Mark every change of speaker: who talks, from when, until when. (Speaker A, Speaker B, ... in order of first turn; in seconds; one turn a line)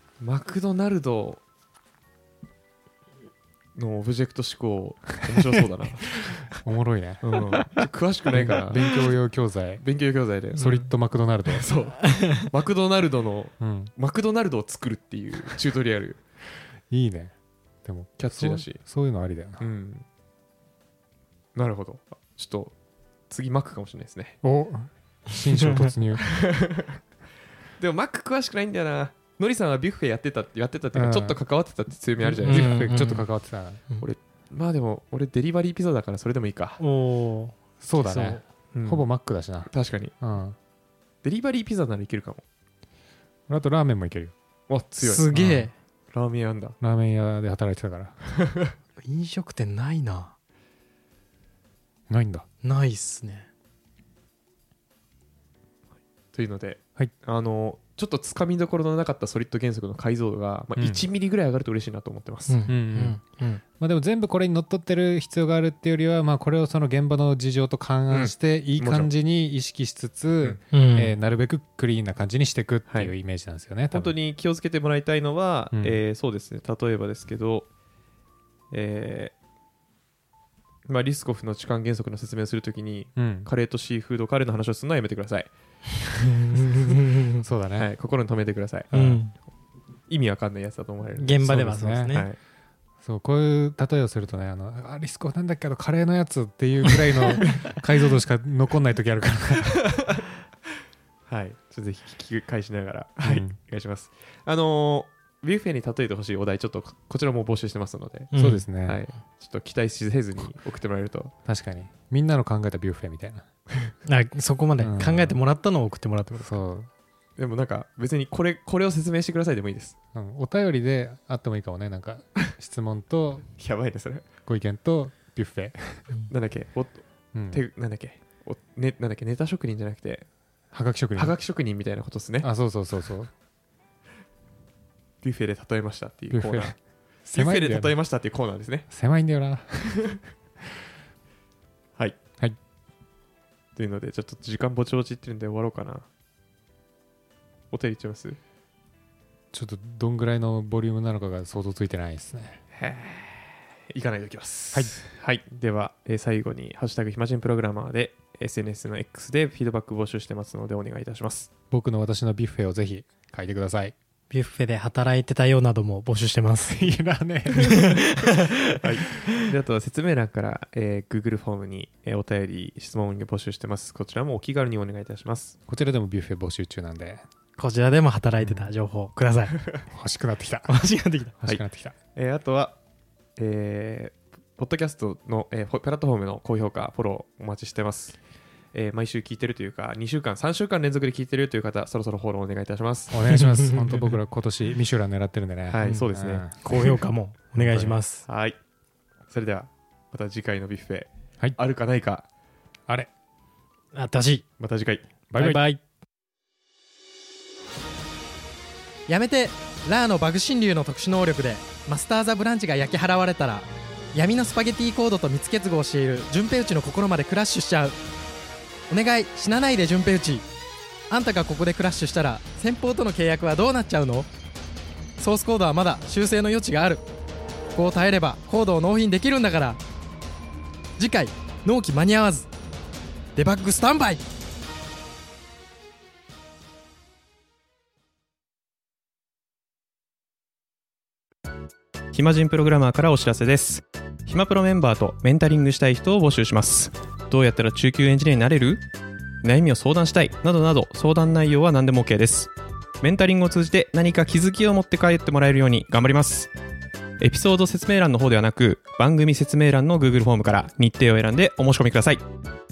Speaker A: 0.2-1.4
Speaker A: 3.8-6.6
Speaker B: 5.3-9.8
Speaker A: 7.2-9.1
Speaker A: 9.8-10.9
Speaker B: 10.6-11.7
Speaker A: 11.5-16.2
Speaker B: 13.6-13.9
Speaker B: 16.9-19.6
Speaker A: 18.2-18.8
Speaker A: 19.6-20.1
Speaker A: 21.6-22.7
Speaker A: 23.3-24.4
Speaker B: 24.4-26.4
Speaker C: 25.6-25.9
Speaker A: 26.2-27.0
Speaker A: 27.8-32.9
Speaker B: 30.9-31.4
Speaker B: 32.2-33.8
Speaker C: 32.5-33.3
Speaker A: 34.0-36.8
Speaker C: 36.8-38.4
Speaker B: 37.8-40.6
Speaker A: 38.7-39.1
Speaker A: 39.7-40.1
Speaker A: 41.2-42.4
Speaker B: 43.5-44.3
Speaker A: 44.7-45.3
Speaker C: 45.0-45.7
Speaker B: 45.3-45.7
Speaker A: 46.1-46.8
Speaker B: 46.8-48.2
Speaker A: 48.3-48.7
Speaker C: 49.0-50.3
Speaker B: 52.1-52.5
Speaker C: 52.6-53.5
Speaker A: 56.3-62.7
Speaker B: 60.8-61.0
Speaker C: 62.5-63.6
Speaker B: 62.7-63.2
Speaker B: 63.8-74.1
Speaker A: 68.1-69.1
Speaker C: 70.7-71.1
Speaker A: 72.9-73.1
Speaker A: 73.9-77.7
Speaker B: 75.7-76.0
Speaker A: 78.7-79.3
Speaker A: 80.9-85.5
Speaker B: 83.2-83.5
Speaker C: 86.5-87.4
Speaker B: 87.4-87.9
Speaker A: 87.8-88.9
Speaker B: 88.9-89.2
Speaker C: 88.9-89.3
Speaker A: 90.1-91.6
Speaker C: 91.2-92.3
Speaker B: 91.4-92.2
Speaker A: 92.1-92.4
Speaker B: 93.0-99.9
Speaker A: 99.9-100.2
Speaker A: 101.3-108.3
Speaker B: 103.2-103.6
Speaker C: 108.3-108.7
Speaker B: 108.3-109.0
Speaker A: 108.8-111.3
Speaker B: 111.5-113.5
Speaker C: 114.1-116.6
Speaker B: 114.8-115.4
Speaker B: 116.4-116.9
Speaker A: 117.4-120.0
Speaker B: 120.1-123.5
Speaker A: 123.6-124.2
Speaker B: 124.5-126.1
Speaker A: 126.3-130.3
Speaker B: 127.3-127.6
Speaker B: 130.7-131.4
Speaker A: 131.2-132.5
Speaker B: 132.4-133.3
Speaker A: 135.2-138.9
Speaker B: 136.3-136.8
Speaker B: 137.3-137.9
Speaker B: 138.9-140.2
Speaker A: 143.8-146.1
Speaker A: 147.7-148.4
Speaker B: 149.5-152.6
Speaker A: 152.7-161.5
Speaker B: 161.7-163.9
Speaker C: 164.3-166.8
Speaker B: 166.7-168.3
Speaker C: 167.6-168.6
Speaker A: 168.8-175.6
Speaker B: 175.7-177.2
Speaker C: 177.6-179.7
Speaker B: 178.4-178.7
Speaker B: 179.9-180.8
Speaker C: 180.7-181.4
Speaker B: 181.4-181.9
Speaker A: 182.2-182.8
Speaker A: 183.4-188.2
Speaker A: 188.7-193.2
Speaker B: 193.1-196.6
Speaker C: 193.3-194.0
Speaker A: 195.7-196.5
Speaker C: 196.6-198.3
Speaker B: 197.6-198.0
Speaker A: 198.2-198.6
Speaker A: 199.3-202.3
Speaker C: 203.9-204.5
Speaker A: 204.6-205.1
Speaker B: 205.3-205.6
Speaker C: 205.4-205.8
Speaker C: 209.1-218.0
Speaker C: 218.9-220.5
Speaker C: 221.1-224.3
Speaker C: 225.2-227.0
Speaker C: 227.8-229.8
Speaker C: 231.0-232.5
Speaker C: 233.4-234.2
Speaker A: 242.1-248.8
Speaker A: 249.4-256.5
Speaker A: 257.2-262.2